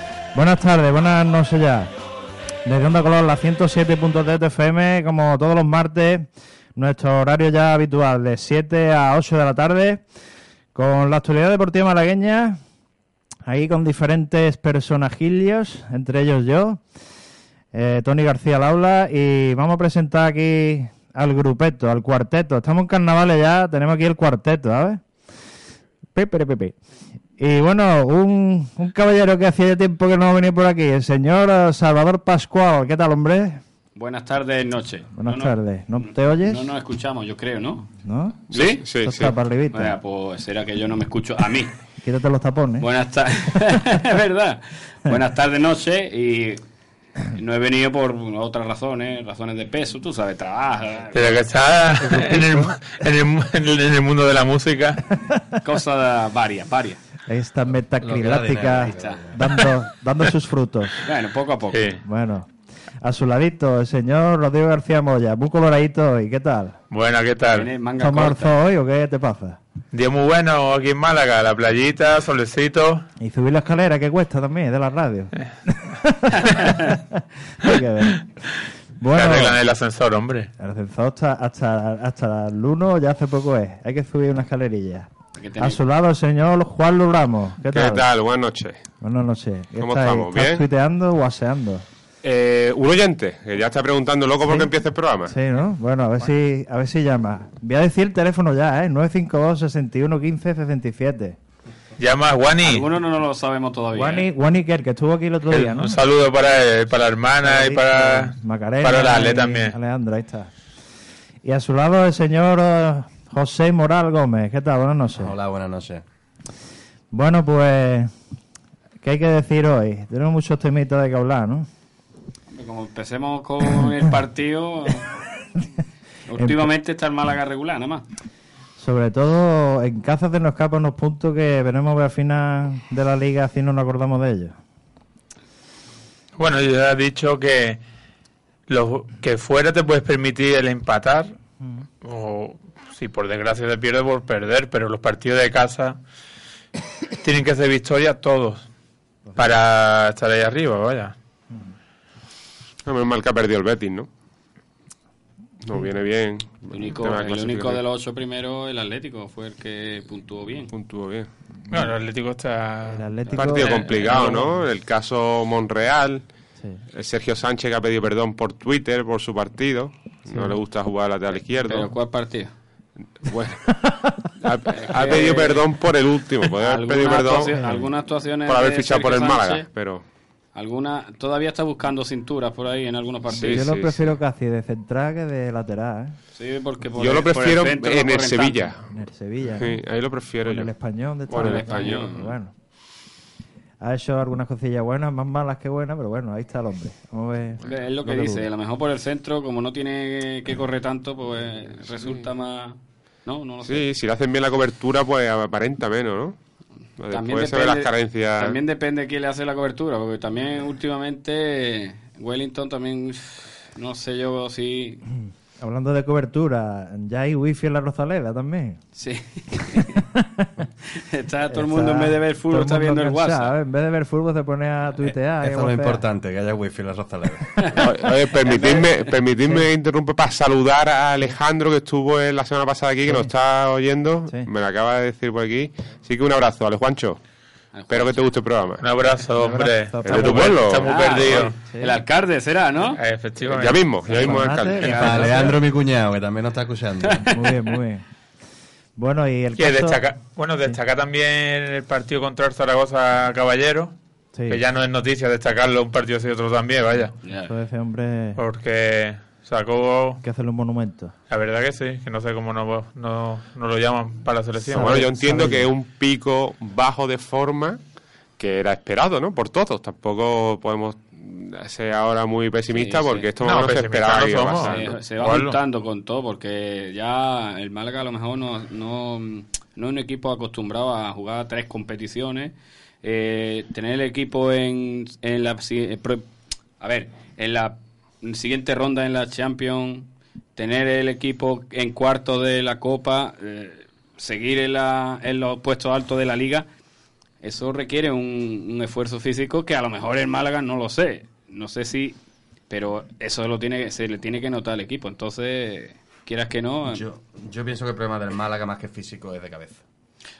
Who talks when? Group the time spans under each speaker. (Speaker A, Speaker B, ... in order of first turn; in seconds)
Speaker A: 0.3-1.9, 2.6-10.0, 10.7-12.6, 13.5-16.8, 17.7-25.0, 26.1-26.8, 27.4-33.6, 35.1-36.6, 38.0-40.0, 42.0-42.9, 52.0-52.8, 57.3-61.0, 62.0-62.5, 63.0-66.8, 68.0-69.6, 73.2-78.2, 79.0-79.6, 80.6-88.0, 89.0-91.8, 95.3-101.4, 103.9-106.0, 107.4-110.5, 111.4-115.3, 117.1-118.1, 119.0-121.7, 126.3-126.7, 128.8-134.6, 162.8-164.5, 183.4-186.2, 188.9-189.8, 190.4-192.5, 193.8-198.5, 215.6-218.8, 219.7-220.5, 221.5-226.0, 239.4-240.6, 241.7-242.0, 244.2-245.6, 247.3-248.0, 249.0-250.0, 254.3-254.6, 257.4-258.4, 260.2-261.1, 264.7-265.7
Speaker B: 34.0-37.9, 38.5-38.8, 39.7-41.7, 42.8-46.6, 47.3-51.4, 55.6-57.0, 61.0-61.9, 67.5-68.5, 76.5-76.8, 85.4-85.8, 102.6-104.3, 122.5-125.1, 126.3-128.1, 156.7-160.7, 171.6-172.5, 174.7-175.7, 176.6-179.7, 180.5-183.7, 186.3-188.7, 191.3-192.2, 197.7-203.9, 207.1-215.0, 218.9-220.0, 220.9-223.5, 228.4-229.1, 237.7-238.2, 240.8-243.0, 244.1-245.5, 257.2-257.5, 272.7-273.3, 274.6-286.3, 286.8-296.7, 297.4-302.2, 302.7-307.0
Speaker C: 38.5-39.3, 87.7-88.8, 89.8-90.7, 92.2-95.3, 152.8-154.1, 155.6-157.8, 160.7-161.3, 163.3-166.2, 166.9-171.9, 173.2-173.9, 174.4-177.7, 178.4-180.0, 183.4-184.1, 186.9-188.9, 189.5-190.7, 191.3-192.2, 203.6-206.3, 207.0-208.6, 227.7-237.2, 237.9-238.8, 240.0-241.4, 243.4-245.1, 264.7-267.8, 268.4-274.9
Speaker D: 51.1-55.0, 61.7-62.0, 66.9-67.7, 69.9-73.0, 79.1-80.5, 102.0-102.8, 105.5-109.8, 136.4-137.8, 138.7-141.3, 142.0-146.0, 147.2-148.7, 149.3-151.1, 161.7-164.5, 238.8-241.6, 243.0-244.0, 249.6-253.9, 254.5-257.1, 258.4-260.2, 261.3-265.1, 273.4-275.6
Speaker E: 58.0-59.4, 115.2-116.0, 225.4-227.8, 244.8-247.3, 306.9-309.8